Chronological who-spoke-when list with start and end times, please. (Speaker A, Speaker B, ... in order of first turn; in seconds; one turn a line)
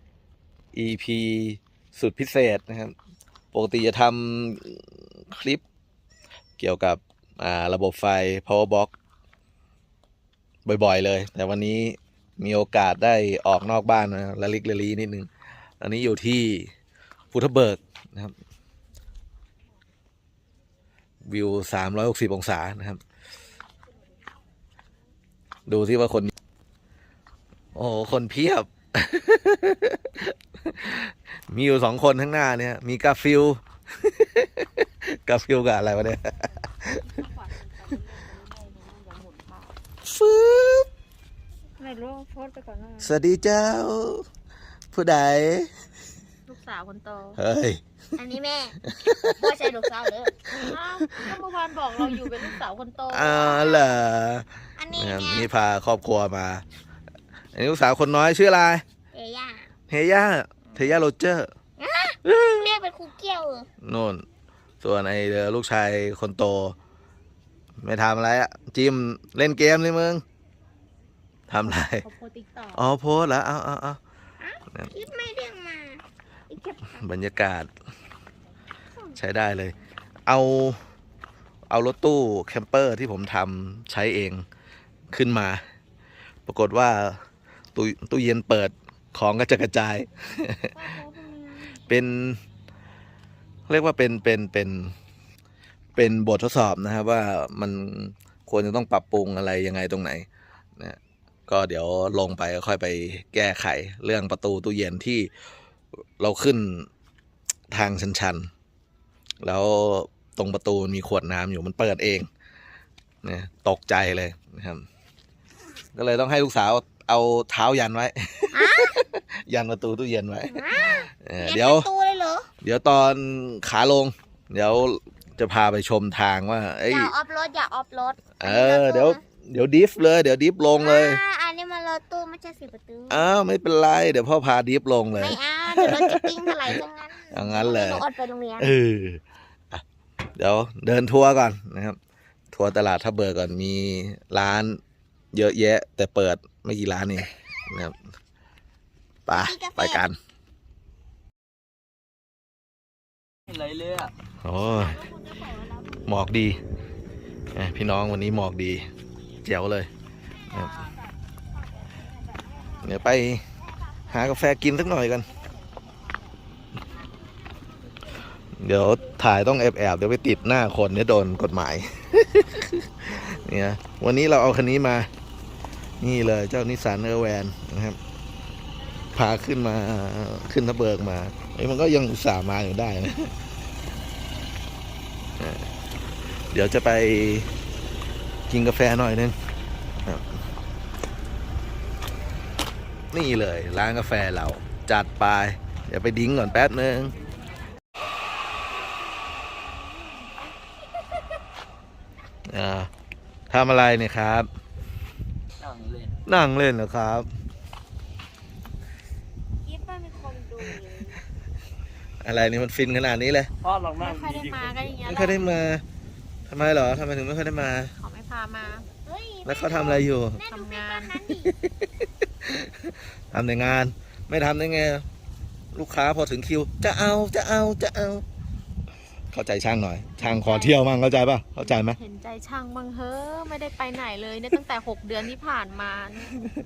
Speaker A: 0.7-3.0
Speaker A: 3.5-5.6
Speaker A: 6.6-8.9
Speaker A: 10.7-15.3
Speaker A: 15.8-16.7
Speaker A: 17.3-18.4
Speaker A: 21.2-23.0
Speaker A: 25.7-26.3
Speaker A: 27.8-37.1
Speaker B: 37.1-39.8
Speaker A: 40.0-40.9
Speaker B: 41.8-43.1
Speaker A: 43.0-44.3
Speaker A: 44.9-45.8
Speaker B: 46.5-47.4
Speaker A: 47.4-47.8
Speaker C: 48.2-50.5
Speaker A: 48.9-49.3
Speaker A: 50.5-51.3
Speaker B: 50.6-53.4
Speaker A: 53.1-56.6
Speaker C: 53.3-54.0
Speaker C: 54.8-55.5
Speaker A: 57.5-58.8
Speaker C: 59.1-59.7
Speaker A: 59.9-61.5
Speaker C: 61.8-63.7
Speaker A: 63.8-64.2
Speaker A: 64.8-66.8
Speaker A: 67.8-70.2
Speaker A: 71.5-72.1
Speaker B: 72.0-72.8
Speaker A: 72.7-74.0
Speaker C: 74.4-77.1
Speaker A: 77.0-77.7
Speaker A: 79.1-79.7
Speaker A: 80.3-80.8
Speaker A: 81.7-84.5
Speaker A: 85.1-85.6
Speaker A: 86.5-87.2
Speaker A: 87.8-90.7
Speaker B: 90.8-91.2
Speaker C: 91.3-91.7
Speaker A: 91.9-92.4
Speaker A: 93.7-94.9
Speaker A: 96.0-100.3
Speaker A: 100.8-105.3
Speaker A: 106.2-106.9
Speaker A: 107.7-108.5
Speaker A: 109.4-112.3
Speaker A: 113.2-114.8
Speaker A: 115.9-121.9
Speaker C: 118.5-119.0
Speaker C: 120.5-122.5
Speaker A: 122.6-127.1
Speaker C: 126.9-129.2
Speaker A: 128.4-131.2
Speaker C: 130.7-133.4
Speaker A: 133.1-136.7
Speaker C: 135.2-138.7
Speaker A: 137.3-138.0
Speaker A: 138.6-139.8
Speaker A: 140.4-142.0
Speaker A: 142.5-144.8
Speaker A: 145.3-148.0
Speaker A: 149.3-150.2
Speaker C: 149.3-150.1
Speaker D: 153.5-154.1
Speaker A: 154.4-155.1
Speaker A: 156.0-156.6
Speaker A: 157.6-158.9
Speaker A: 159.4-159.9
Speaker A: 160.5-160.8
Speaker A: 162.8-163.4
Speaker A: 164.1-165.3
Speaker A: 168.6-175.1
Speaker A: 176.0-178.0
Speaker A: 179.1-183.3
Speaker A: 185.4-185.7
Speaker A: 186.5-187.5
Speaker A: 188.5-189.4
Speaker A: 193.1-197.2
Speaker A: 202.5-202.9
Speaker A: 203.5-204.5
Speaker D: 205.6-206.2
Speaker A: 206.3-207.3
Speaker C: 209.6-211.2
Speaker A: 212.2-213.5
Speaker D: 213.6-214.9
Speaker B: 214.0-215.5
Speaker A: 215.1-215.8
Speaker A: 216.5-217.9
Speaker B: 218.0-218.9
Speaker C: 219.1-221.5
Speaker A: 219.4-220.4
Speaker B: 220.5-221.2
Speaker A: 221.6-221.9
Speaker A: 222.4-222.7
Speaker A: 223.3-225.1
Speaker A: 225.7-228.2
Speaker A: 229.3-232.0
Speaker B: 230.2-230.8
Speaker B: 231.7-236.3